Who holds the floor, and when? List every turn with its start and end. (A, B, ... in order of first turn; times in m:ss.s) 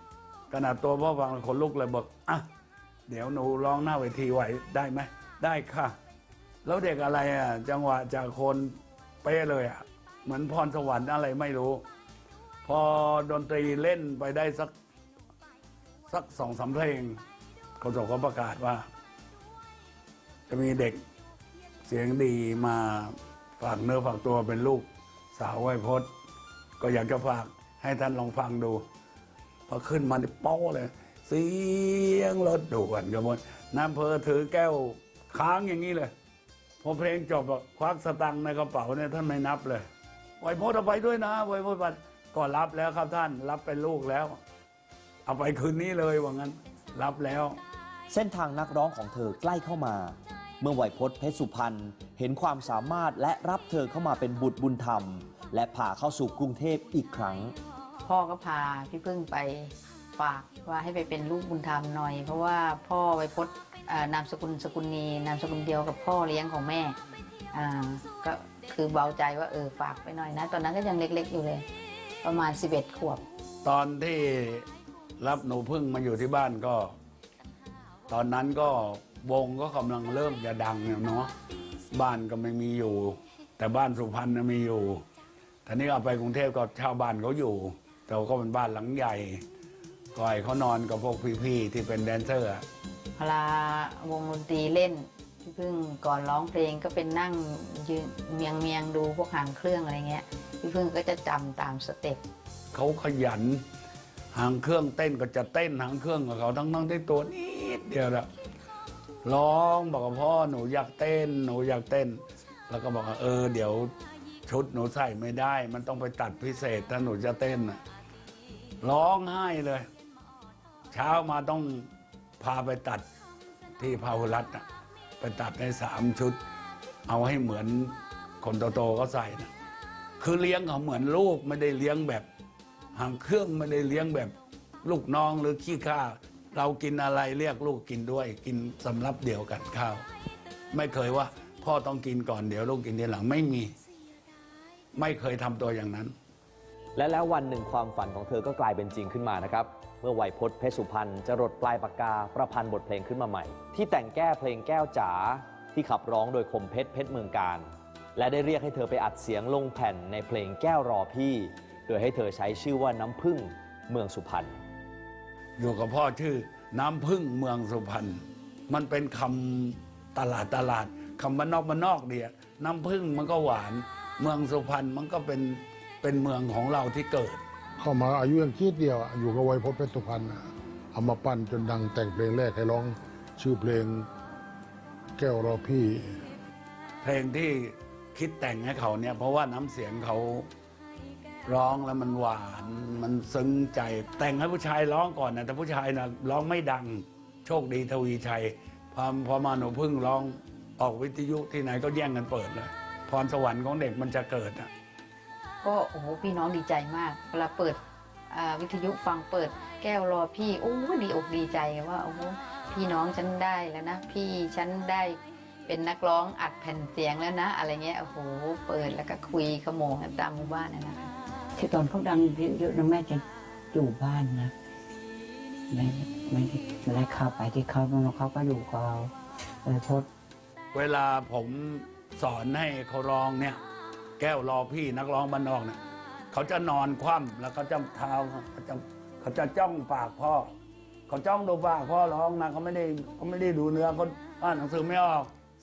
0:00.5-0:02.5 A
0:03.1-0:06.0 A
0:06.6-0:11.8 A
0:12.6-0:14.7 A
0:16.1-0:17.2 A
0:17.8-0:18.9 A
0:20.5-0:21.0 A
0:21.8-0:26.1 A
0:26.8-0:28.8 A
0:29.7-0:36.1 A
0:36.8-0:39.9 A
0:40.4-0:44.4 A
0:45.3-0:47.6 A
0:48.1-0:57.6 B
0:58.0-1:07.0 C
1:07.5-1:11.6 C
1:12.2-1:13.2 C
1:13.6-1:14.7 A
1:15.2-1:17.0 A
1:18.1-1:21.3 A
1:21.9-1:25.0 A
1:25.7-1:29.4 A
1:30.2-1:32.6 A
1:33.2-1:42.2 C
1:42.7-1:43.6 A
1:44.3-1:48.3 A
1:49.2-1:53.9 A
1:54.5-1:57.8 A
1:58.8-1:59.9 A
2:00.9-2:01.9 A
2:02.4-2:03.0 A
2:03.8-2:04.6 A
2:05.2-2:06.4 A
2:07.1-2:09.5 A
2:10.2-2:12.3 A
2:12.9-2:20.0 A
2:20.7-2:23.7 A
2:25.0-2:26.1 A
2:27.0-2:44.6 B
2:45.6-2:57.4 A
2:57.8-3:04.1 D
3:05.2-3:06.2 D
3:07.0-3:10.5 A
3:11.5-3:24.7 A
3:25.6-3:41.1 C
3:41.6-3:44.5 E
3:45.7-3:50.1 E
3:50.7-3:53.6 A
3:54.2-3:55.8 A
3:56.3-4:00.5 A
4:01.1-4:05.3 A